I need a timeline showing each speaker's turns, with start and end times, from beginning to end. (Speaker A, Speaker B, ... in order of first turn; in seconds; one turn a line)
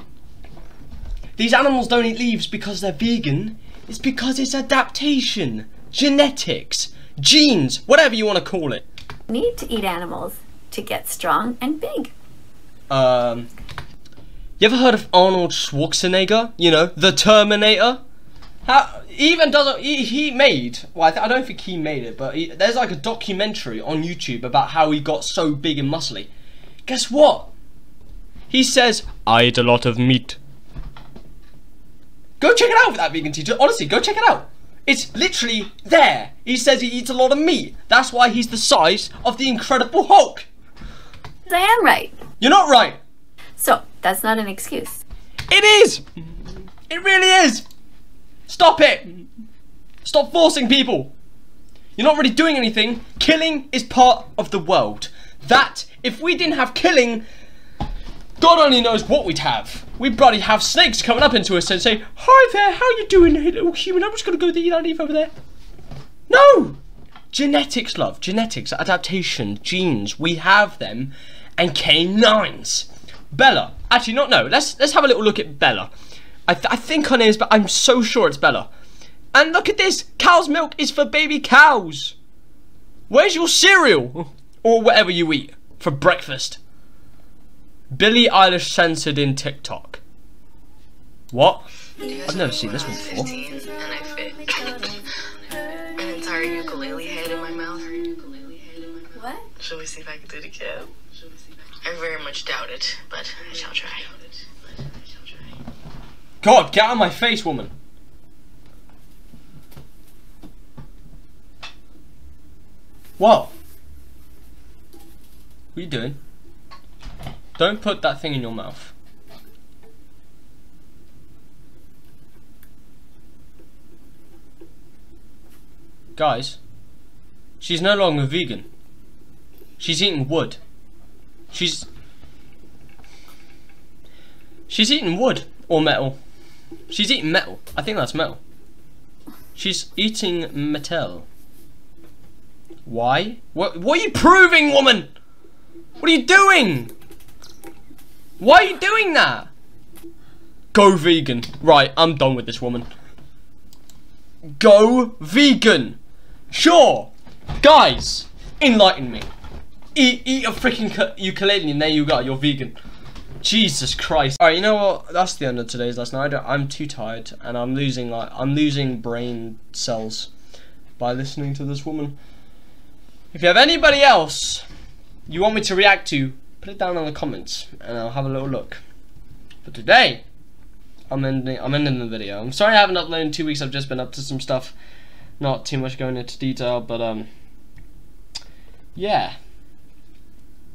Speaker A: 1.4-8.9
Speaker B: 9.3-12.1
Speaker A: 12.9-13.5
Speaker A: 14.6-18.0
Speaker A: 18.6-26.3
Speaker A: 26.9-27.5
Speaker A: 28.5-30.4
Speaker A: 32.4-40.5
Speaker B: 41.5-42.2
Speaker A: 42.4-43.0
Speaker B: 43.6-45.0
Speaker A: 45.5-46.0
Speaker A: 46.9-47.6
Speaker A: 48.5-49.3
Speaker A: 50.0-51.1
Speaker A: 52.0-57.2
Speaker A: 58.4-65.3
Speaker A: 66.3-66.8
Speaker A: 67.3-75.9
Speaker A: 76.5-78.7
Speaker A: 79.3-82.2
Speaker A: 83.1-86.6
Speaker A: 87.9-90.0
Speaker A: 91.3-91.7
Speaker C: 92.1-95.0
Speaker A: 92.2-93.3
Speaker C: 95.9-98.9
Speaker B: 99.1-99.5
Speaker C: 99.6-100.9
Speaker C: 101.8-104.2
Speaker A: 106.4-107.7
Speaker A: 113.2-113.5
Speaker A: 115.7-116.2
Speaker A: 117.6-118.9
Speaker A: 126.2-126.6
Speaker A: 127.6-128.7
Speaker A: 129.8-130.6
Speaker A: 131.5-131.9
Speaker A: 134.7-136.2
Speaker A: 136.9-138.4
Speaker A: 139.5-141.3
Speaker A: 142.8-145.1
Speaker A: 146.0-146.9
Speaker A: 148.4-149.5
Speaker A: 150.7-152.9
Speaker A: 154.6-156.0
Speaker A: 156.5-159.3
Speaker A: 159.9-162.8
Speaker A: 163.4-170.3
Speaker A: 171.0-172.2
Speaker A: 173.3-174.6
Speaker A: 175.3-178.8
Speaker A: 179.6-180.2
Speaker A: 181.1-184.7
Speaker A: 185.4-187.3
Speaker A: 188.9-189.3